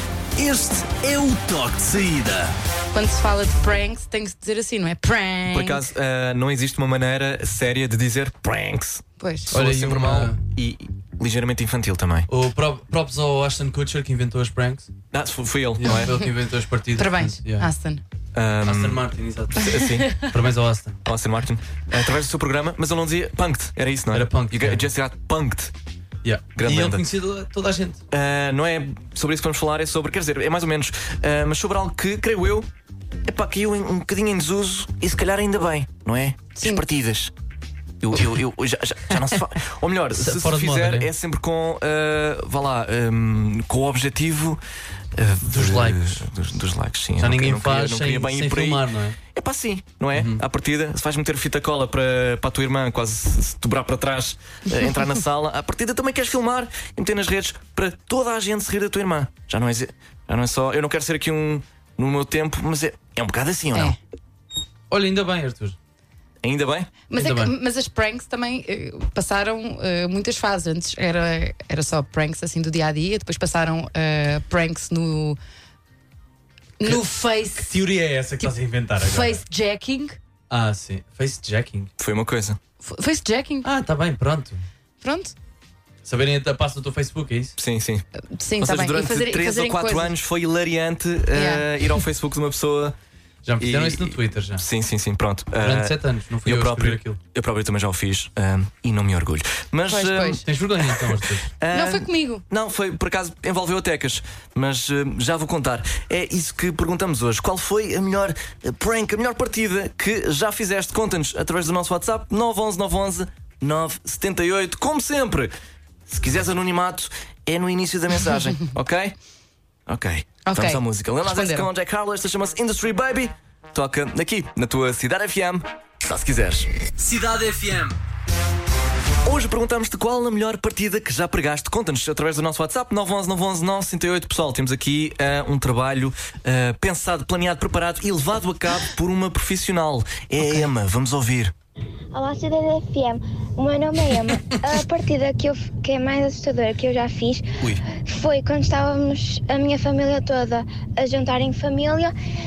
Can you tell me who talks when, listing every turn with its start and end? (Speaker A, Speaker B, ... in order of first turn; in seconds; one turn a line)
Speaker A: 0.4-2.5
Speaker B: 2.9-5.8
Speaker C: 5.5-12.3
Speaker B: 9.2-9.6
Speaker D: 9.5-10.4
Speaker D: 12.3-14.9
Speaker C: 15.1-16.4
Speaker D: 15.8-17.7
Speaker B: 17.0-18.0
Speaker C: 18.4-20.2
Speaker D: 18.7-21.0
Speaker C: 21.1-25.7
Speaker D: 24.1-24.9
Speaker D: 26.2-28.0
Speaker C: 26.6-27.1
Speaker C: 28.1-32.7
Speaker C: 33.3-37.3
Speaker B: 36.6-36.9
Speaker C: 38.0-44.6
Speaker D: 40.1-41.1
Speaker C: 45.2-64.0
Speaker D: 45.4-46.2
Speaker D: 47.2-49.2
Speaker D: 50.1-50.4
Speaker D: 64.9-65.8
Speaker C: 66.4-67.0
Speaker B: 67.1-75.4
Speaker D: 67.1-67.5
Speaker B: 76.8-77.7
Speaker D: 77.5-79.4
Speaker B: 78.4-80.2
Speaker D: 80.5-81.9
Speaker C: 82.0-82.6
Speaker B: 82.8-83.7
Speaker D: 83.6-84.6
Speaker B: 85.0-85.3
Speaker D: 86.0-87.5
Speaker C: 87.6-88.0
Speaker B: 88.2-90.2
Speaker C: 88.6-93.0
Speaker B: 91.3-91.9
Speaker D: 93.4-94.6
Speaker C: 93.6-115.5
Speaker D: 95.6-97.2
Speaker B: 99.9-100.4
Speaker D: 100.4-101.5
Speaker B: 101.7-102.5
Speaker C: 116.1-119.2
Speaker C: 119.9-126.7
Speaker B: 120.5-121.7
Speaker D: 127.0-128.0
Speaker C: 129.2-141.5
Speaker E: 142.1-147.4
Speaker E: 148.1-152.1